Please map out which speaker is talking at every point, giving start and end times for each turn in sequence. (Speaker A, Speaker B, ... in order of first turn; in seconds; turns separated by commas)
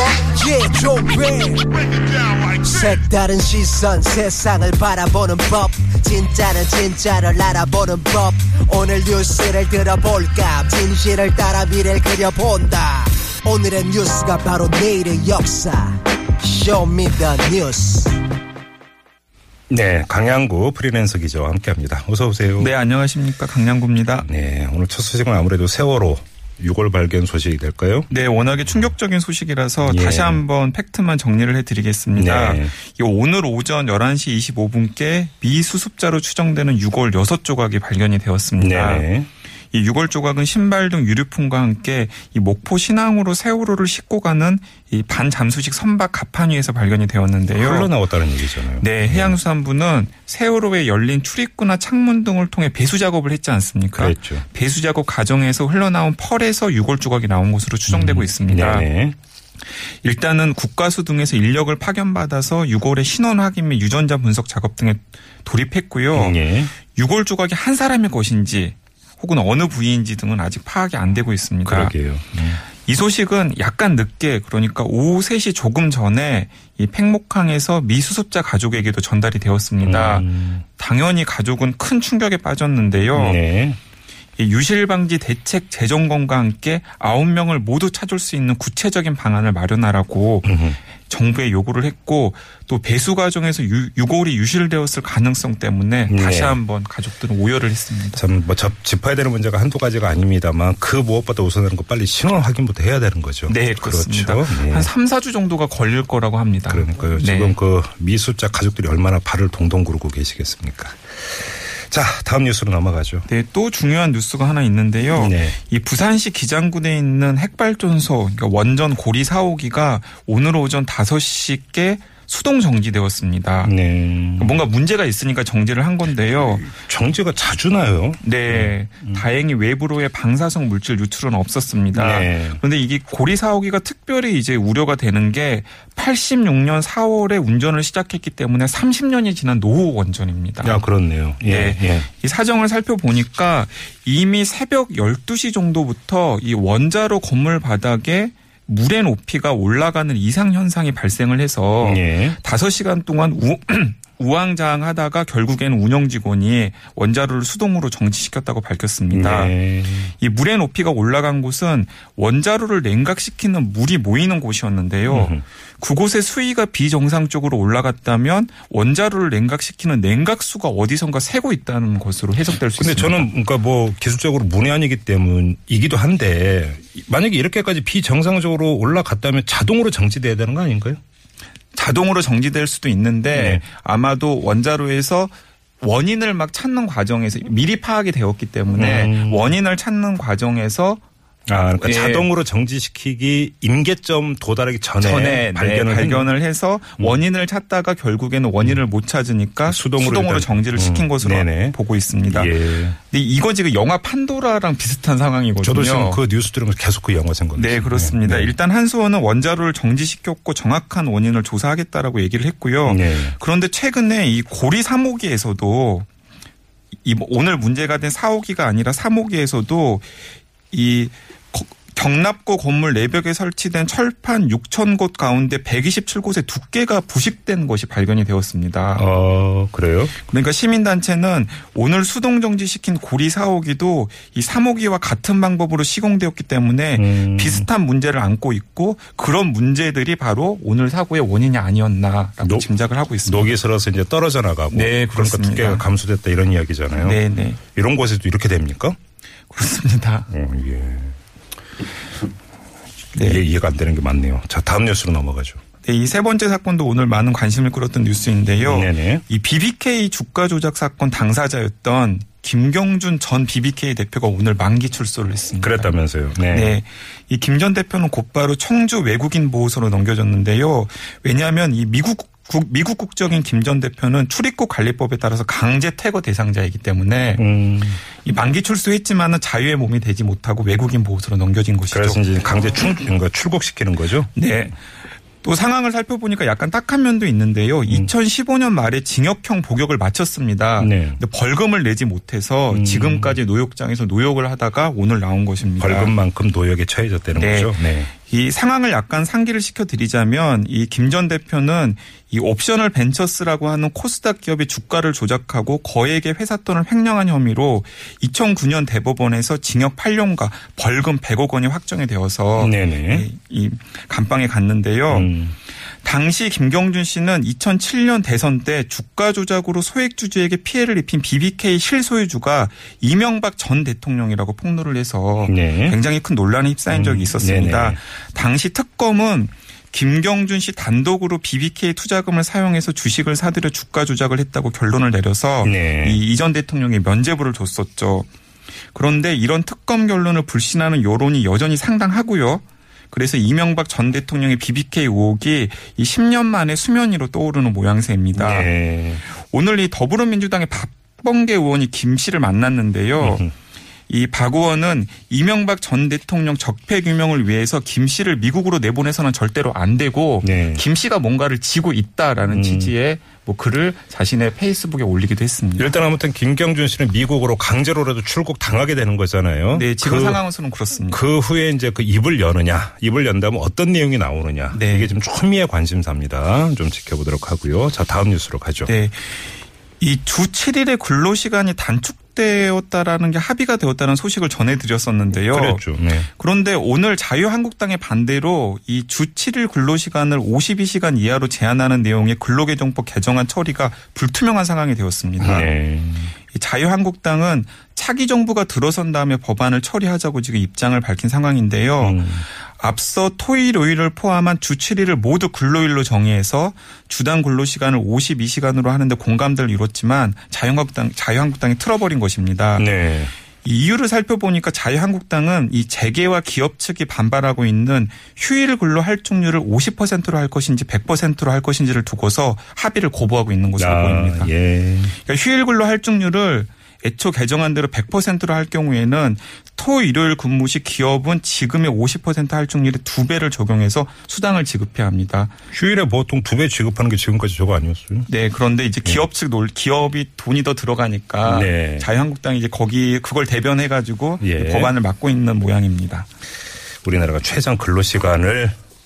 Speaker A: 0.3-1.7, Speaker A: 2.6-18.2, Speaker B: 19.7-22.7, Speaker C: 22.6-24.3, Speaker B: 24.2-28.1, Speaker C: 28.1-39.0, Speaker B: 29.8-30.4, Speaker B: 32.2-32.7, Speaker B: 38.6-39.3, Speaker C: 39.7-47.9, Speaker B: 47.5-49.4, Speaker C: 48.8-58.9, Speaker B: 54.0-54.5, Speaker B: 57.9-59.2, Speaker C: 59.9-71.9, Speaker B: 66.1-66.7, Speaker B: 71.7-72.6, Speaker C: 72.6-83.4, Speaker B: 79.8-80.6, Speaker B: 83.1-83.8, Speaker C: 84.4-90.5, Speaker B: 90.5-90.8, Speaker C: 91.1-98.2, Speaker B: 96.1-96.6, Speaker B: 98.1-104.9, Speaker C: 103.5-107.6, Speaker B: 106.7-113.3, Speaker C: 113.3-123.7, Speaker B: 115.1-115.6, Speaker B: 123.6-124.6, Speaker C: 124.4-126.7, Speaker B: 126.6-129.2, Speaker C: 128.2-140.8, Speaker B: 131.9-132.6, Speaker B: 140.6-142.1, Speaker C: 141.4-159.5, Speaker B: 151.8-152.4, Speaker B: 159.1-160.1, Speaker C: 160.2-173.3, Speaker B: 165.1-165.4, Speaker B: 172.8-181.0, Speaker C: 181.7-191.0, Speaker B: 183.3-183.6, Speaker B: 188.7-189.5, Speaker B: 191.5-196.3, Speaker C: 191.8-192.3, Speaker C: 195.0-206.2, Speaker B: 199.6-201.8, Speaker B: 202.3-203.0, Speaker B: 205.6-208.6, Speaker C: 207.5-216.1, Speaker B: 212.8-213.4, Speaker C: 217.0-220.1, Speaker C: 220.7-229.0, Speaker B: 228.9-230.1, Speaker C: 230.2-243.6, Speaker B: 236.9-237.7, Speaker B: 242.4-242.7, Speaker B: 243.2-247.2, Speaker C: 244.7-245.9, Speaker C: 246.9-247.6, Speaker B: 247.7-249.0, Speaker C: 249.5-250.3, Speaker B: 250.3-251.2, Speaker C: 253.1-253.4, Speaker B: 253.1-255.6, Speaker C: 255.8-265.9, Speaker B: 258.6-259.2, Speaker B: 265.6-266.8, Speaker C: 266.5-277.4, Speaker B: 277.4-278.0, Speaker C: 278.1-282.3, Speaker B: 281.9-284.3, Speaker C: 284.3-284.8, Speaker C: 285.4-296.1, Speaker B: 290.8-291.2, Speaker B: 292.7-293.4, Speaker B: 295.8-298.1, Speaker C: 297.3-315.3, Speaker B: 312.6-313.3, Speaker B: 315.1-315.6, Speaker C: 315.8-338.3, Speaker B: 325.4-326.0, Speaker B: 326.9-328.0, Speaker B: 335.6-336.2, Speaker C: 338.9-353.5, Speaker B: 348.4-349.2, Speaker B: 353.2-353.5, Speaker C: 354.1-366.0, Speaker B: 360.4-360.8, Speaker B: 362.5-362.9, Speaker B: 365.8-370.4, Speaker C: 369.7-371.2, Speaker B: 371.1-378.9, Speaker C: 374.7-375.1, Speaker C: 378.9-379.4, Speaker C: 380.0-395.7, Speaker B: 385.4-386.3, Speaker B: 395.4-396.3, Speaker C: 396.5-412.9, Speaker B: 402.0-402.5, Speaker B: 412.8-413.3, Speaker C: 413.6-424.5, Speaker B: 423.8-425.1, Speaker C: 425.1-435.5, Speaker B: 435.7-438.3, Speaker C: 438.3-446.3, Speaker B: 441.4-442.1, Speaker B: 444.4-444.9, Speaker B: 447.0-448.8